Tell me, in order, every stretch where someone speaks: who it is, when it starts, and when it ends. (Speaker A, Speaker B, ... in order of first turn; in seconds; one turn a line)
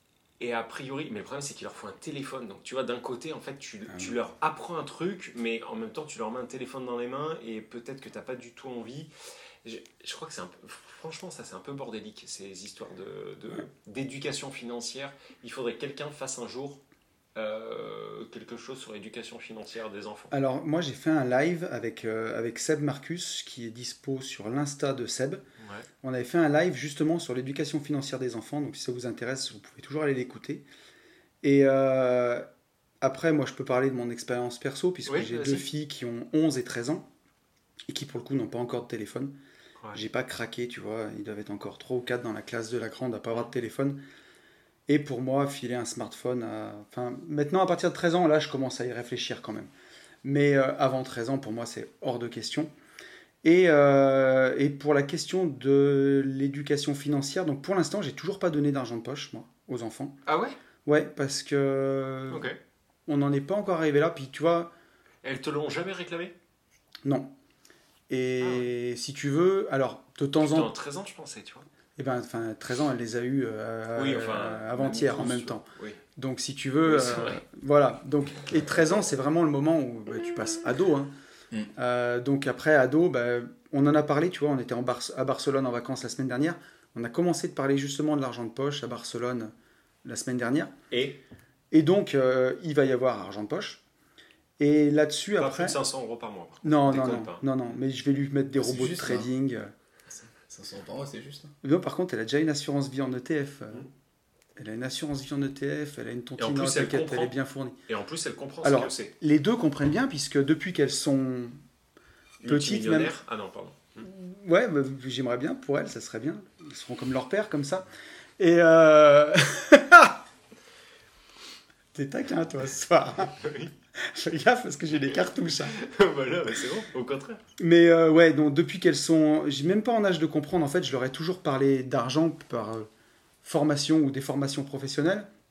Speaker A: 0.4-9.1
Speaker B: 3.9-4.2
Speaker A: 9.6-16.8
Speaker A: 17.4-20.3
Speaker B: 20.3-25.4
Speaker A: 25.6-25.9
Speaker B: 26.0-30.6
Speaker B: 31.4-32.5
Speaker B: 33.0-37.1
Speaker A: 35.1-35.7
Speaker B: 37.9-39.4
Speaker B: 39.9-44.0
Speaker B: 44.9-49.7
Speaker B: 50.2-52.7
Speaker B: 53.4-60.1
Speaker A: 60.3-60.6
Speaker B: 60.8-62.5
Speaker A: 62.3-62.6
Speaker B: 63.1-64.7
Speaker A: 65.2-66.3
Speaker B: 67.0-67.3
Speaker B: 68.1-70.7
Speaker A: 68.4-68.7
Speaker A: 70.4-71.7
Speaker B: 72.0-81.1
Speaker A: 73.9-76.0
Speaker A: 76.8-77.4
Speaker B: 81.8-89.5
Speaker B: 90.0-90.7
Speaker A: 90.9-91.2
Speaker B: 91.7-93.8
Speaker B: 94.6-95.8
Speaker A: 95.4-97.4
Speaker B: 96.6-99.7
Speaker C: 98.6-99.3
Speaker C: 100.1-101.5
Speaker B: 101.6-103.9
Speaker B: 104.5-107.8
Speaker A: 106.4-107.3
Speaker A: 107.9-109.1
Speaker B: 108.6-111.6
Speaker A: 112.4-114.1
Speaker B: 112.4-113.2
Speaker B: 114.0-117.9
Speaker B: 118.4-120.2
Speaker B: 121.9-123.4
Speaker A: 123.4-123.7
Speaker B: 124.0-125.7
Speaker A: 125.7-127.4
Speaker B: 127.6-132.9
Speaker B: 133.4-135.3